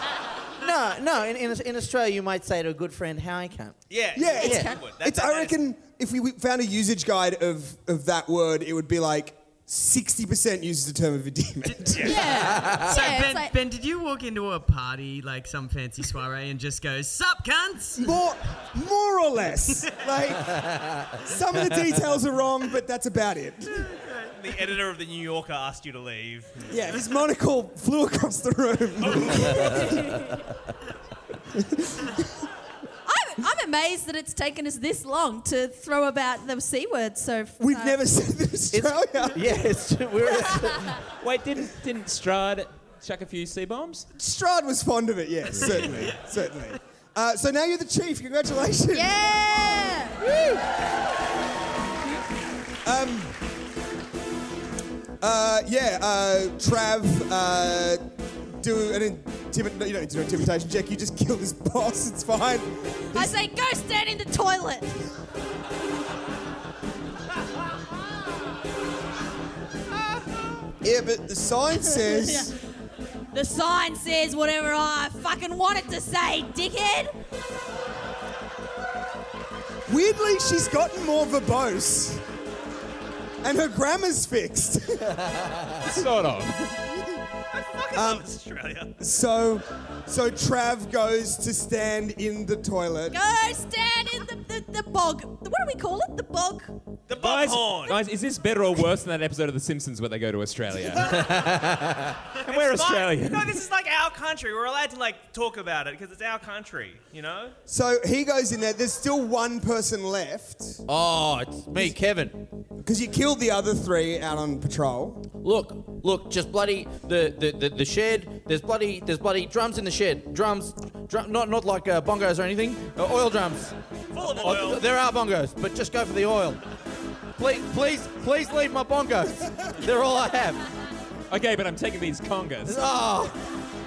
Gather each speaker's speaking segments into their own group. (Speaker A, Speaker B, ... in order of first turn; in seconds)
Speaker A: 0.6-3.8, 4.4-4.7, 12.2-13.1, 20.6-20.9, 29.4-29.9, 38.7-41.0, 101.0-102.2, 110.9-112.5, 115.4-126.6, 127.4-130.6, 132.7-133.4
Speaker B: 3.9-5.6, 11.9-12.2, 24.2-26.8, 29.1-29.6, 87.5-89.0, 97.1-98.0, 102.4-107.6, 124.1-124.8
Speaker C: 4.2-12.3, 18.0-23.9, 26.7-30.2, 31.5-32.2, 37.6-39.6, 44.1-49.1, 52.9-53.4, 55.2-63.3, 70.8-72.5, 79.9-82.2, 83.4-86.1, 87.9-88.2, 89.0-93.2, 107.7-110.8, 112.8-115.3
Speaker D: 4.4-4.8, 12.0-13.5, 29.9-30.2, 33.1-38.0, 48.9-50.6, 63.1-65.0, 71.9-72.6, 73.3-77.1, 93.1-96.8
Speaker E: 12.8-18.1
Speaker F: 41.2-44.1, 85.8-86.8, 97.1-101.4, 102.4-103.6, 131.3-132.8